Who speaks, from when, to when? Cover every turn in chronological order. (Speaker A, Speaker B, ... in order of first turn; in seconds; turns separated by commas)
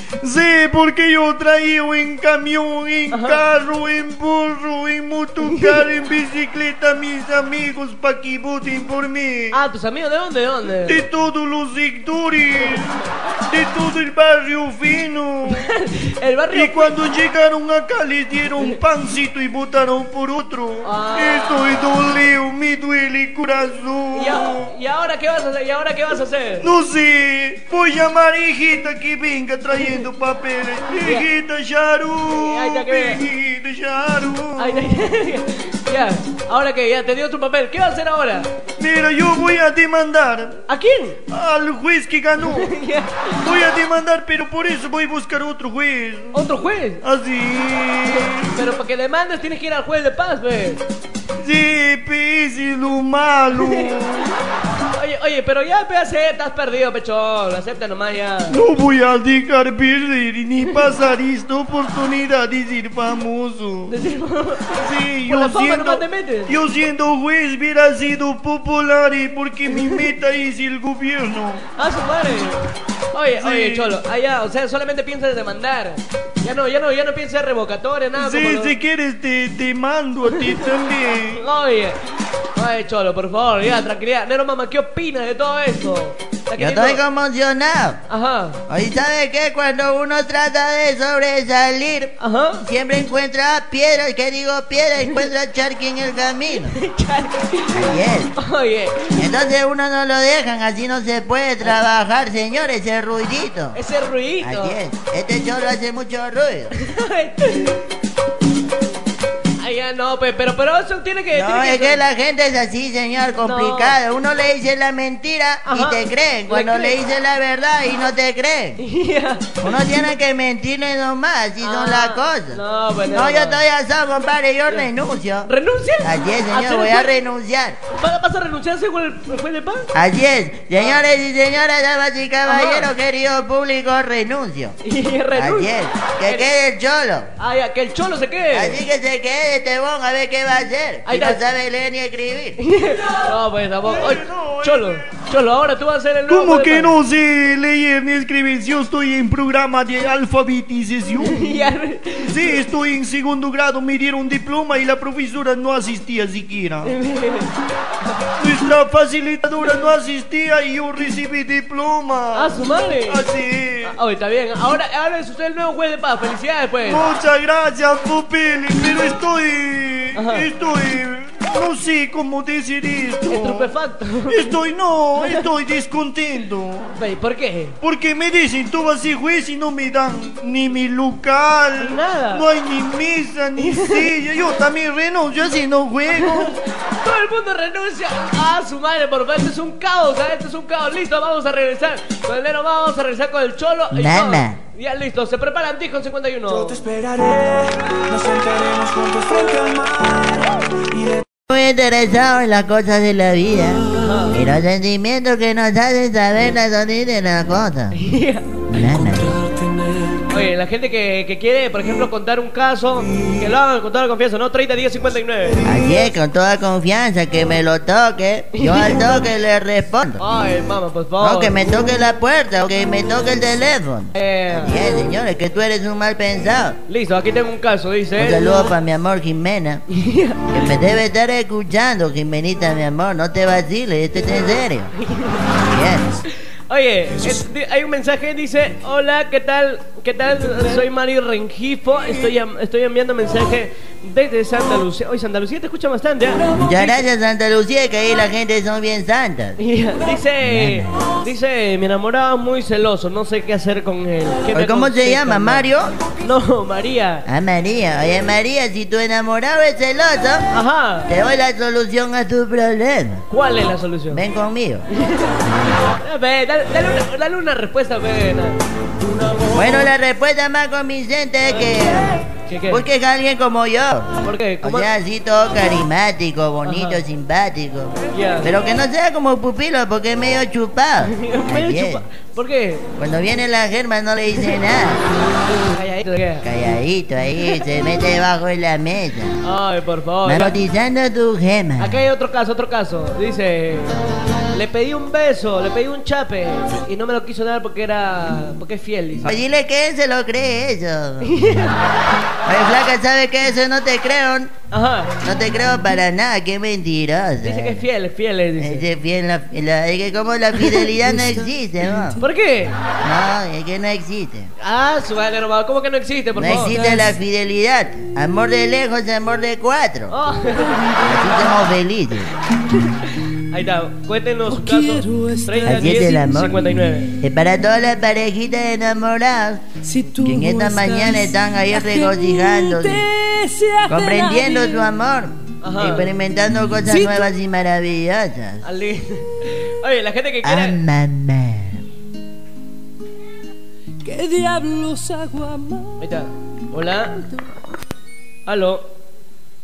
Speaker A: 0.2-9.6, Speaker B: 3.1-3.4, Speaker B: 5.5-5.8, Speaker B: 9.5-11.0, Speaker A: 10.8-15.7, Speaker B: 15.5-16.9, Speaker A: 16.5-24.7, Speaker B: 20.8-21.6, Speaker B: 24.1-26.7, Speaker A: 26.6-35.0, Speaker B: 30.9-31.3, Speaker B: 32.3-33.2, Speaker B: 34.6-38.5, Speaker A: 38.8-40.6, Speaker B: 40.7-41.2, Speaker A: 41.3-42.7, Speaker B: 42.4-43.5, Speaker A: 43.4-46.3, Speaker B: 46.3-47.0, Speaker A: 47.0-48.6, Speaker B: 48.1-50.8, Speaker A: 51.4-54.4, Speaker B: 53.5-54.3, Speaker B: 54.9-58.6, Speaker A: 58.5-64.0, Speaker B: 63.9-66.5, Speaker A: 64.7-71.7, Speaker B: 69.7-70.1, Speaker B: 71.8-78.7, Speaker A: 73.4-74.0, Speaker A: 78.2-81.4, Speaker B: 80.3-80.7, Speaker B: 81.3-82.0, Speaker B: 82.5-87.0, Speaker C: 86.6-88.0, Speaker B: 88.1-88.6, Speaker C: 88.7-92.1, Speaker B: 92.2-92.6, Speaker C: 92.6-96.8, Speaker B: 96.5-99.3, Speaker C: 97.7-98.3, Speaker C: 99.2-103.8, Speaker B: 103.7-104.8, Speaker C: 104.4-106.7, Speaker B: 106.7-107.8, Speaker B: 109.6-112.0, Speaker C: 111.3-118.8, Speaker B: 113.4-114.0, Speaker B: 115.7-117.0, Speaker B: 118.8-119.5, Speaker C: 119.6-122.6, Speaker B: 121.6-123.6, Speaker C: 123.1-125.5, Speaker B: 125.5-127.1, Speaker C: 126.0-127.8, Speaker B: 127.9-129.9, Speaker C: 129.9-134.7, Speaker B: 132.4-132.9, Speaker B: 134.8-135.7, Speaker C: 135.3-137.3, Speaker B: 136.2-136.5, Speaker B: 137.4-138.8, Speaker C: 138.5-142.6, Speaker B: 141.1-141.4, Speaker B: 142.6-146.9, Speaker A: 143.8-145.0, Speaker A: 146.3-151.4, Speaker B: 151.2-152.6, Speaker A: 152.2-156.9, Speaker B: 156.8-157.5, Speaker A: 158.4-162.5, Speaker B: 162.3-163.2, Speaker A: 163.1-163.9, Speaker B: 163.8-167.0, Speaker A: 166.9-173.7, Speaker B: 170.2-170.5, Speaker B: 173.3-174.6, Speaker A: 174.3-177.0, Speaker B: 176.9-177.7, Speaker A: 177.8-186.6, Speaker B: 181.8-182.5, Speaker B: 183.6-184.1, Speaker B: 186.1-196.8, Speaker C: 193.9-194.6, Speaker D: 196.7-201.2, Speaker C: 201.5-203.8, Speaker B: 204.0-204.4, Speaker C: 204.3-208.0, Speaker B: 207.9-208.5, Speaker C: 208.7-209.4, Speaker B: 210.3-215.6, Speaker C: 215.6-220.2, Speaker B: 218.6-219.1, Speaker B: 220.2-221.5, Speaker C: 221.2-226.8, Speaker B: 224.1-224.8, Speaker B: 226.9-228.6, Speaker C: 228.2-229.8, Speaker B: 229.9-230.5, Speaker C: 230.5-234.9, Speaker B: 235.0-235.4, Speaker C: 235.7-236.2, Speaker B: 236.7-246.9, Speaker C: 246.6-249.6, Speaker B: 249.6-255.7, Speaker C: 250.4-251.0, Speaker C: 254.5-255.9, Speaker B: 256.2-257.2, Speaker C: 257.3-260.4, Speaker B: 260.5-261.1, Speaker C: 261.1-263.2, Speaker B: 263.3-264.2, Speaker C: 264.1-264.9, Speaker B: 265.0-265.4, Speaker C: 265.4-265.8, Speaker B: 266.0-269.4, Speaker C: 269.5-282.0, Speaker B: 271.5-272.9, Speaker B: 274.2-274.9, Speaker B: 276.6-277.0, Speaker B: 278.1-278.5, Speaker B: 281.0-282.8, Speaker C: 283.0-285.0, Speaker B: 285.5-286.4, Speaker C: 286.4-289.4, Speaker B: 289.4-290.6, Speaker C: 290.2-292.0, Speaker B: 291.8-299.4, Speaker C: 299.2-301.3, Speaker B: 301.2-301.8, Speaker C: 302.4-304.5, Speaker B: 304.7-305.1, Speaker C: 305.2-307.8, Speaker B: 307.4-308.8, Speaker C: 308.6-312.2, Speaker B: 310.6-310.9, Speaker B: 312.2-312.8, Speaker C: 313.0-314.5, Speaker B: 314.6-316.8, Speaker C: 316.4-320.1, Speaker E: 316.8-317.1, Speaker B: 320.1-320.8, Speaker E: 320.6-321.5, Speaker C: 321.0-322.3, Speaker B: 322.7-327.1, Speaker E: 324.6-325.7, Speaker C: 325.6-326.6, Speaker C: 327.2-329.6, Speaker E: 329.8-331.3, Speaker C: 330.2-333.1, Speaker E: 331.9-332.6, Speaker B: 332.6-334.8, Speaker E: 333.1-334.2, Speaker C: 333.9-338.6, Speaker B: 335.6-336.1, Speaker B: 336.9-337.3, Speaker B: 338.6-340.8, Speaker C: 340.4-341.8, Speaker E: 344.0-346.0, Speaker B: 345.9-347.3, Speaker B: 348.5-348.8